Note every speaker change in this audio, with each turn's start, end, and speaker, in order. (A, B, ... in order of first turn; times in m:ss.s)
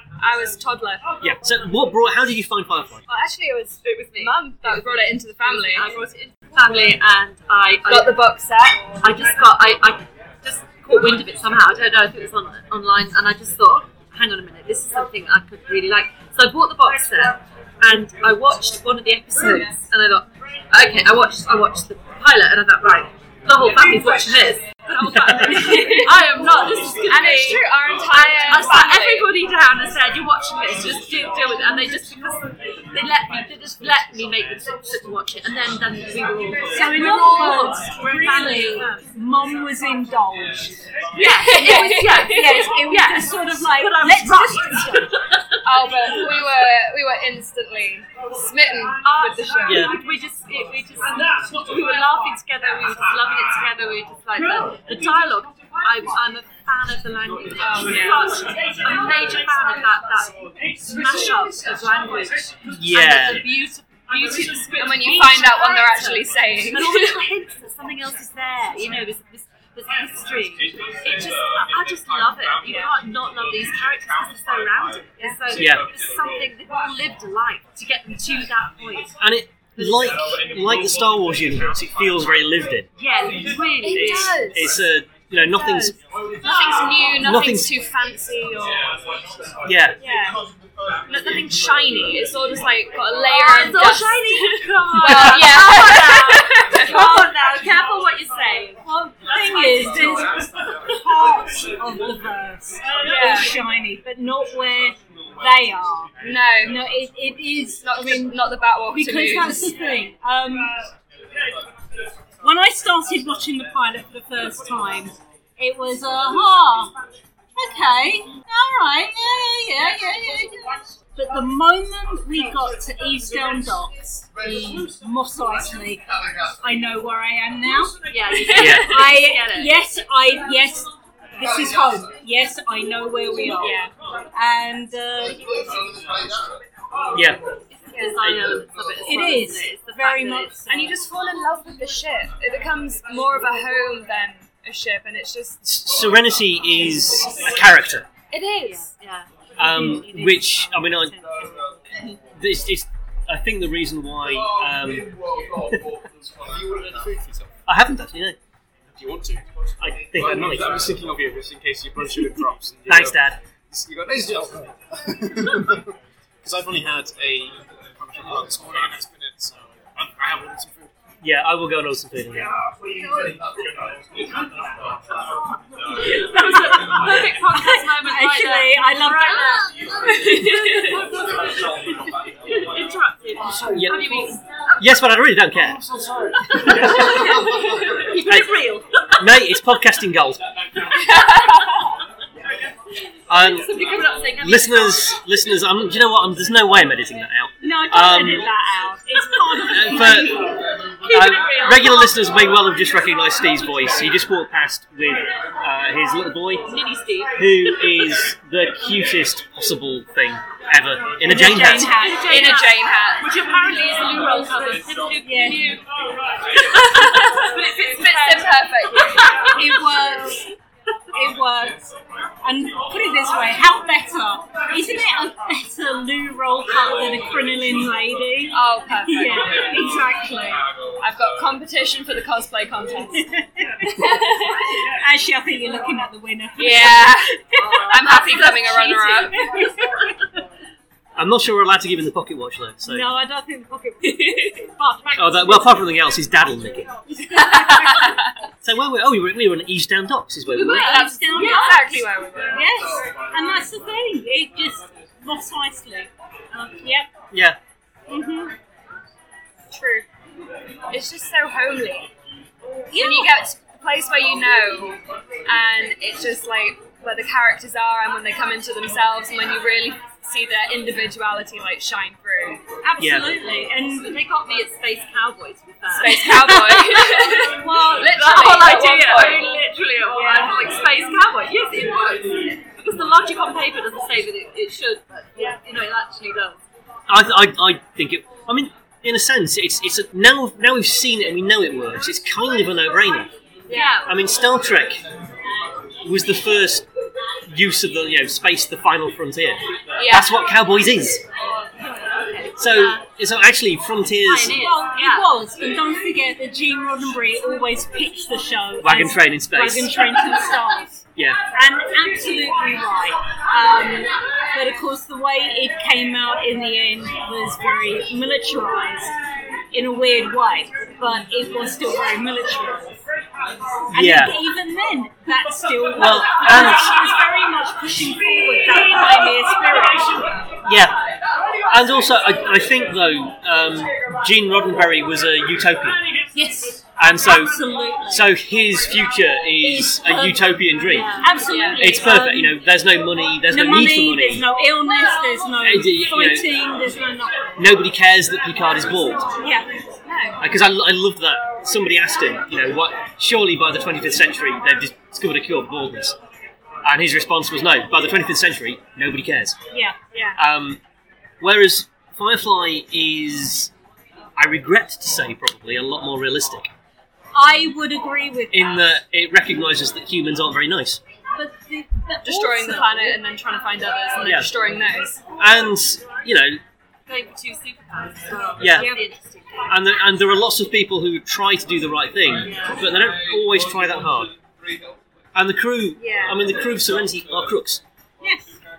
0:00.2-0:01.1 A
0:01.2-0:03.1 B
0:03.1-0:05.9 A
0:03.8-0:08.2 C
0:07.9-0:08.8 A
0:09.0-0:39.0 C
0:25.0-0:25.6 B
0:25.5-0:26.1 D
0:25.6-0:26.1 A
0:27.1-0:29.3 A
0:36.7-0:40.7 D
0:41.2-0:42.6 A
0:41.2-0:46.4 C
0:42.2-0:45.1 D
0:45.6-0:49.9 A
0:49.0-1:19.2 C
0:49.7-0:49.9 B
0:57.6-0:58.3 A
1:02.7-1:03.5 B
1:04.7-1:07.2 A
1:12.6-1:12.9 A
1:15.2-1:15.4 A
1:15.5-1:15.9 B
1:19.2-1:22.9 B
1:19.8-1:20.2 C
1:23.0-1:24.7 C
1:23.8-1:24.8 A
1:23.9-1:26.0 B
1:26.4-1:28.9 A
1:27.2-1:27.7 B
1:29.6-1:30.0 B
1:30.0-1:30.4 A
1:31.1-1:37.1 A
1:33.3-1:38.8 C
1:36.8-1:37.8 D
1:38.8-1:46.1 D
1:39.6-1:40.3 C
1:43.0-1:43.5 A
1:46.2-1:46.8 A
1:46.6-1:48.4 D
1:47.8-1:49.7 A
1:48.9-1:50.8 D
1:52.4-1:56.9 D
1:57.6-2:06.0 D
2:04.5-2:04.8 C
2:06.6-2:08.0 D
2:08.1-2:09.7 C
2:08.3-2:09.1 A
2:08.5-2:09.0 B
2:08.6-2:13.8 D
2:13.6-2:13.9 A
2:14.4-2:15.8 D
2:17.1-2:17.4 B
2:17.8-2:20.7 C
2:19.0-2:20.9 D
2:20.7-2:25.6 A
2:25.6-2:28.1 B
2:28.3-2:28.9 A
2:28.6-2:30.5 C
2:29.6-2:31.2 B
2:29.6-2:30.4 D
2:32.4-2:35.9 B
2:36.8-2:37.5 E
2:37.7-2:38.4 B
2:39.0-2:39.4 E
2:39.8-2:40.9 B
2:40.3-2:43.2 E
2:42.9-2:43.4 B
2:43.7-2:45.9 E
2:46.4-2:50.9 E
2:51.2-2:52.5 B
2:56.0-2:59.7 D
2:56.0-3:01.3 C
3:00.1-3:01.0 A
3:02.5-3:04.4 C
3:03.7-3:04.1 B
3:04.8-3:05.8 B
3:05.7-3:07.1 E
3:06.5-3:09.3 C
3:06.6-3:07.3 B
3:08.2-3:08.6 B
3:09.2-3:10.4 B
3:11.0-3:11.7 A
3:13.3-3:13.7 B
3:13.4-3:15.1 C
3:14.4-3:18.5 B
3:17.6-3:20.6 D
3:19.7-3:20.4 B
3:21.0-3:22.2 C
3:21.1-3:26.7 B
3:26.7-3:28.0 C
3:27.4-3:32.0 B
3:31.2-3:32.7 D
3:31.8-3:35.8 C
3:32.2-3:33.3 A
3:35.2-3:35.8 D
3:36.6-3:39.7 C
3:36.7-3:39.5 A
3:39.5-3:40.5 D
3:41.1-3:50.6 D
3:48.5-3:49.7 A
3:51.0-3:53.3 A
3:53.2-3:54.2 D
3:53.8-3:54.8 A
3:54.8-3:57.9 D
3:56.6-3:59.5 A
3:57.7-3:59.6 C
3:59.3-4:00.1 D
4:01.2-4:03.1 B
4:02.9-4:05.8 D
4:04.0-4:04.6 A
4:05.2-4:06.9 B
4:07.1-4:08.2 D
4:07.3-4:08.3 A
4:08.6-4:11.1 B
4:10.6-4:12.6 A
4:10.6-4:17.1 D
4:17.3-4:17.6 B
4:18.1-4:18.6 D
4:19.7-4:20.1 A
4:20.9-4:22.1 A
4:22.9-4:23.3 D
4:23.0-4:32.6 A
4:32.8-4:34.1 D
4:33.0-4:33.3 B
4:33.9-4:46.6 C
4:35.9-4:39.5 A
4:36.1-4:38.2 D
4:40.1-4:40.6 D
4:47.1-4:53.3 B
4:53.7-4:54.0 A
4:53.7-4:54.1 C
4:54.0-4:55.0 B
4:56.0-4:56.9 B
4:57.5-5:01.2 B
5:00.0-5:00.4 A
5:01.6-5:03.0 C
5:02.6-5:04.6 B
5:04.2-5:05.3 C
5:04.5-5:11.0 D
5:08.8-5:10.0 B
5:11.5-5:19.1 D
5:19.7-5:23.0 D
5:23.9-5:30.3 D
5:23.9-5:24.4 B
5:26.0-5:27.0 B
5:30.6-5:31.0 B
5:31.7-5:36.0 B
5:36.3-5:38.3 D
5:37.0-5:41.1 B
5:39.6-5:42.6 D
5:40.9-5:41.8 C
5:41.4-5:41.9 A
5:41.8-5:44.5 B
5:43.5-5:47.7 D
5:45.6-5:46.5 B
5:47.6-5:49.3 B
5:49.4-5:49.7 D
5:50.1-5:50.4 A
5:50.4-5:56.2 B
5:56.8-5:59.6 B
6:00.1-6:00.4 A
6:00.4-6:00.8 B
6:01.4-6:03.7 B
6:04.4-6:06.7 B
6:07.4-6:08.8 D
6:08.5-6:11.0 B
6:11.4-6:13.2 D
6:12.2-6:15.2 A
6:14.2-6:14.5 B
6:15.4-6:16.6 B
6:17.1-6:19.8 C
6:18.6-6:19.0 B
6:18.7-6:19.0 D
6:19.7-6:24.3 B
6:22.4-6:22.9 C
6:25.4-6:27.8 B
6:28.2-6:28.6 D